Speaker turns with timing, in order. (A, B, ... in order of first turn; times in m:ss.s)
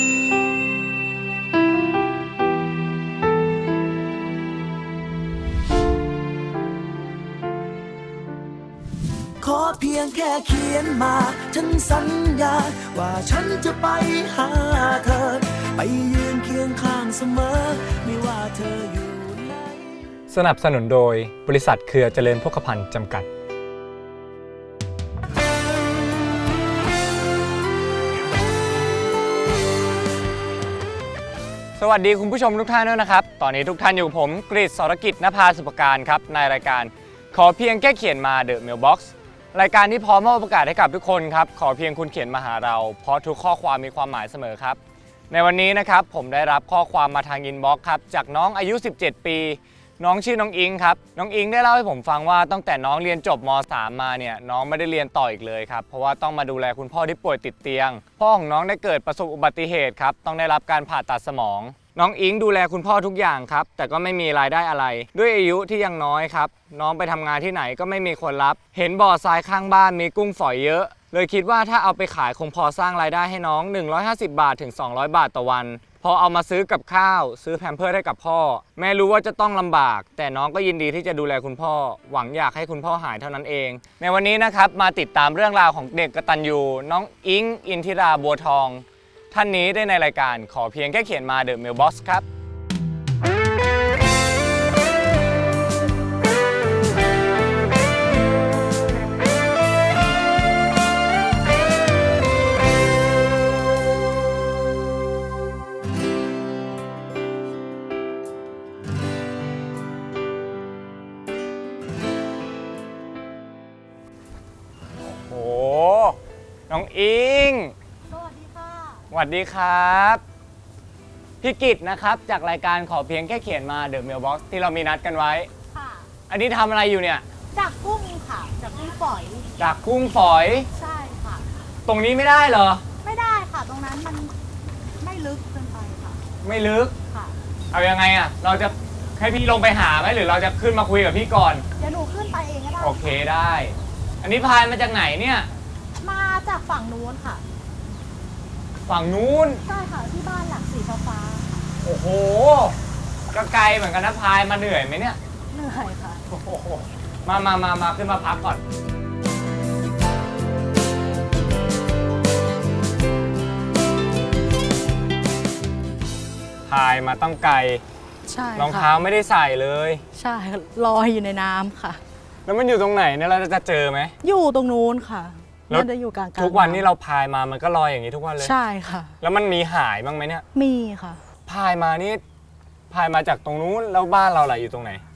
0:09.4-0:19.8 A
0:20.3-0:23.3 B
0:31.8-0:44.8 B
0:45.3-1:32.2 B
1:55.0-1:56.2 B
1:56.7-1:57.7 B
1:58.1-1:59.0 C
1:59.1-2:00.2 B
2:01.4-2:05.5 B
2:05.8-2:06.0 C
2:06.3-2:07.2 B
2:07.5-2:09.5 C
2:09.6-2:10.7 B
2:10.8-2:11.4 C
2:11.8-2:12.8 B
2:13.0-2:14.3 C
2:15.0-2:16.2 C
2:16.4-2:16.9 B
2:17.7-2:21.6 B
2:21.8-2:23.0 C
2:22.8-2:25.5 B
2:26.0-2:27.4 C
2:28.8-2:29.6 B
2:29.7-2:31.5 C
2:31.8-2:32.7 B
2:33.3-2:35.2 B
2:35.5-2:36.2 C
2:36.3-2:38.6 B
2:46.7-2:47.8 B
2:48.3-2:48.9 C
2:48.6-2:50.0 B
2:50.1-2:52.0 C
2:52.4-2:54.1 B
2:54.2-2:56.8 C
2:55.7-2:58.5 B
2:58.4-2:59.1 C
2:59.2-3:00.4 B
3:00.5-3:01.2 C
3:01.4-3:02.2 B
3:02.9-3:05.0 B